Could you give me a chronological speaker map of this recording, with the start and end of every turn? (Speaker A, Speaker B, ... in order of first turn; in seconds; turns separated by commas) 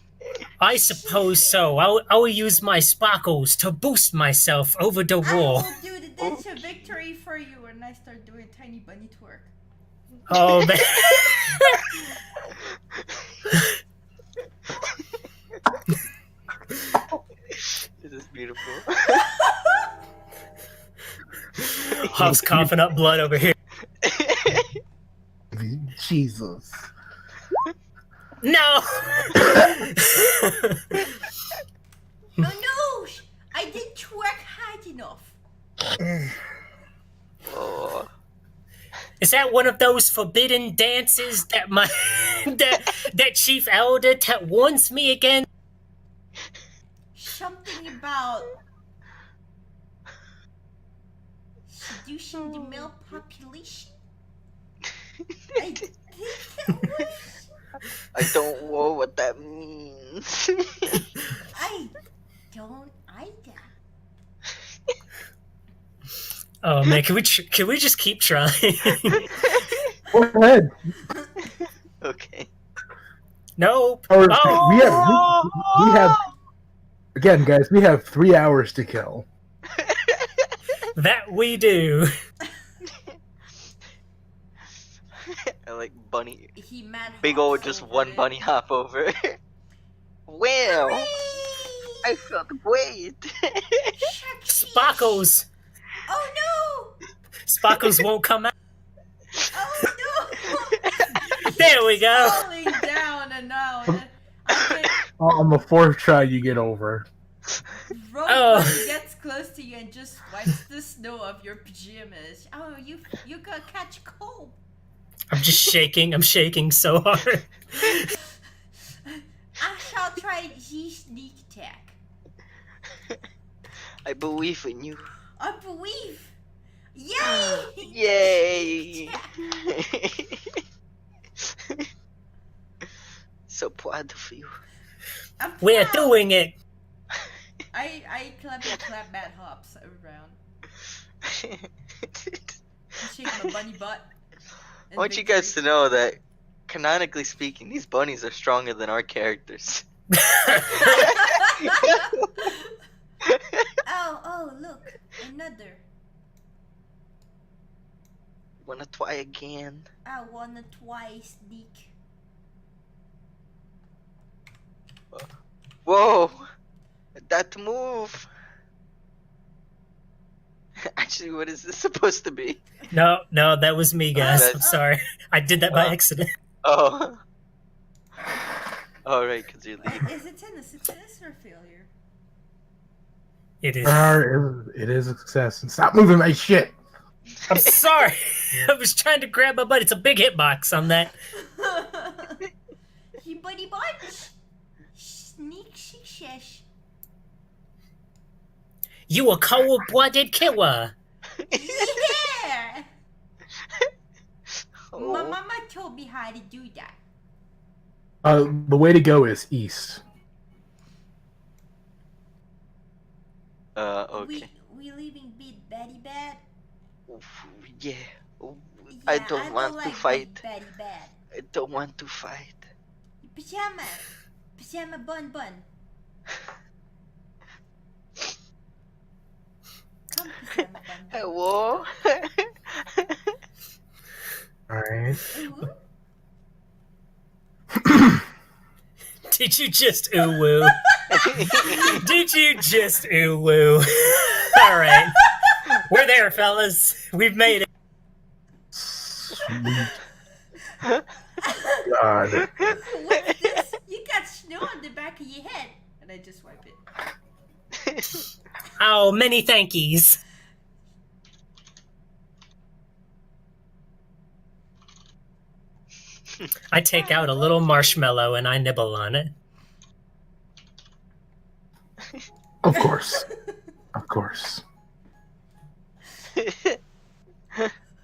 Speaker A: 0.6-5.7, Speaker B: 0.7-1.6, Speaker B: 5.2-9.5, Speaker C: 6.2-6.9, Speaker A: 10.3-11.8, Speaker C: 17.5-19.4, Speaker A: 21.6-23.6, Speaker D: 22.1-22.7, Speaker C: 24.0-24.7, Speaker D: 25.5-26.9, Speaker A: 28.4-30.8, Speaker B: 32.4-35.4, Speaker C: 37.5-38.1, Speaker A: 39.2-45.5, Speaker B: 47.1-48.5, Speaker B: 51.7-53.9, Speaker C: 52.5-52.9, Speaker B: 55.5-57.5, Speaker C: 58.1-60.9, Speaker B: 61.5-62.0, Speaker B: 62.5-63.7, Speaker A: 66.6-69.3, Speaker C: 69.3-69.8, Speaker D: 70.1-70.7, Speaker C: 72.0-72.5, Speaker A: 73.6-75.1, Speaker D: 74.1-76.2, Speaker C: 74.4-76.2, Speaker D: 77.1-79.2, Speaker C: 79.8-80.2, Speaker A: 80.9-82.1, Speaker C: 85.6-86.5, Speaker B: 86.5-88.3, Speaker C: 87.2-89.4, Speaker C: 90.3-91.2, Speaker B: 90.7-92.2, Speaker C: 92.0-93.9, Speaker B: 94.0-95.2, Speaker A: 94.5-95.5, Speaker B: 96.0-97.0, Speaker A: 97.4-98.5, Speaker B: 99.5-105.0, Speaker A: 101.4-102.4, Speaker D: 105.2-107.1, Speaker B: 107.9-114.6, Speaker A: 108.3-108.9, Speaker A: 115.3-118.1, Speaker B: 119.6-122.0, Speaker C: 124.0-125.1, Speaker B: 125.4-126.3, Speaker B: 126.9-129.4, Speaker C: 127.2-130.6, Speaker C: 131.4-131.8, Speaker C: 133.5-134.6, Speaker B: 135.4-136.2, Speaker A: 135.6-136.5, Speaker B: 137.7-140.4, Speaker C: 141.2-142.6, Speaker B: 143.0-144.1, Speaker B: 144.9-145.6, Speaker C: 144.9-149.8, Speaker A: 150.2-151.1, Speaker B: 150.7-152.7, Speaker C: 150.8-152.0, Speaker B: 153.8-155.8, Speaker C: 158.6-159.8, Speaker B: 160.0-161.9, Speaker C: 165.8-166.4, Speaker C: 167.2-168.3, Speaker C: 170.8-172.6, Speaker A: 172.9-176.3, Speaker C: 174.1-174.6, Speaker B: 174.2-174.9, Speaker C: 175.7-176.0, Speaker C: 176.6-177.2, Speaker C: 179.0-180.1, Speaker B: 179.8-181.9, Speaker A: 183.6-184.2, Speaker D: 183.8-186.7, Speaker A: 187.5-191.1, Speaker B: 191.4-192.4, Speaker B: 193.2-194.3, Speaker B: 194.9-196.6, Speaker A: 199.1-200.9, Speaker B: 201.5-202.8, Speaker C: 204.9-205.4, Speaker B: 204.9-207.0, Speaker D: 208.2-210.0, Speaker C: 213.8-214.5, Speaker B: 214.2-216.4, Speaker C: 217.1-220.4, Speaker B: 218.9-221.1, Speaker C: 221.3-222.7, Speaker B: 223.2-225.7, Speaker B: 230.1-231.5, Speaker C: 231.1-233.1, Speaker D: 234.7-235.2, Speaker B: 235.3-235.7, Speaker D: 237.8-238.2, Speaker A: 239.3-247.7, Speaker B: 240.9-242.0, Speaker C: 241.1-242.0, Speaker D: 248.7-250.0, Speaker B: 251.4-251.8, Speaker D: 251.8-252.8, Speaker B: 252.8-256.8, Speaker A: 258.8-260.2, Speaker A: 266.7-269.3, Speaker B: 266.9-268.0, Speaker D: 272.6-273.3, Speaker D: 273.9-274.6, Speaker C: 276.4-276.8